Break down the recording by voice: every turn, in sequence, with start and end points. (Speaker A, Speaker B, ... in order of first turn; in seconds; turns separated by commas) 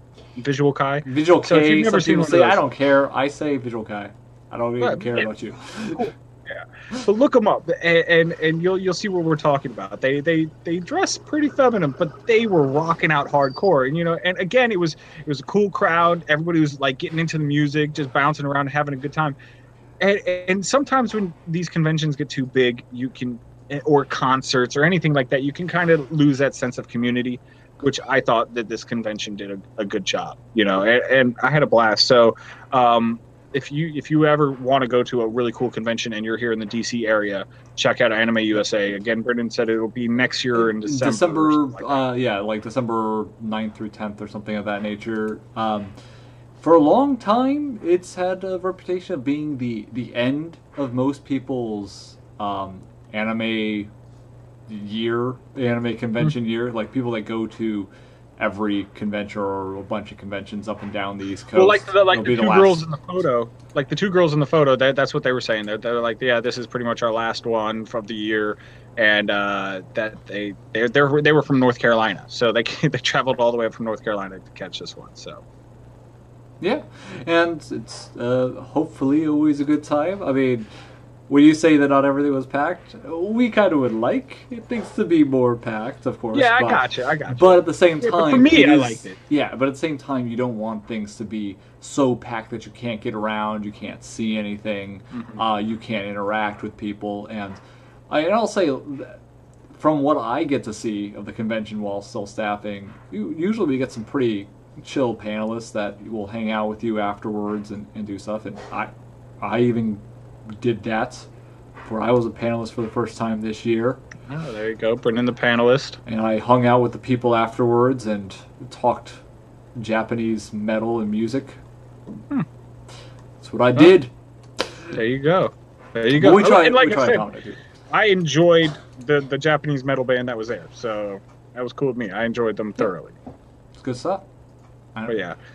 Speaker A: 0.4-2.6, Speaker B: 1.1-6.1, Speaker A: 4.8-5.3, Speaker A: 6.0-19.4, Speaker A: 20.0-42.0, Speaker B: 40.5-45.9, Speaker B: 46.6-53.9, Speaker B: 54.7-62.8, Speaker A: 61.5-75.4, Speaker B: 76.6-80.7, Speaker B: 81.3-99.2, Speaker A: 86.3-89.2, Speaker A: 95.1-95.4, Speaker B: 99.7-110.0, Speaker B: 110.6-111.3, Speaker B: 111.8-114.0, Speaker A: 114.3-116.0, Speaker B: 116.0-119.2, Speaker B: 119.8-121.6, Speaker B: 123.4-124.1, Speaker A: 124.9-127.3, Speaker B: 126.2-127.6, Speaker A: 127.9-133.2, Speaker B: 133.8-134.2, Speaker B: 134.9-135.2, Speaker A: 135.1-135.4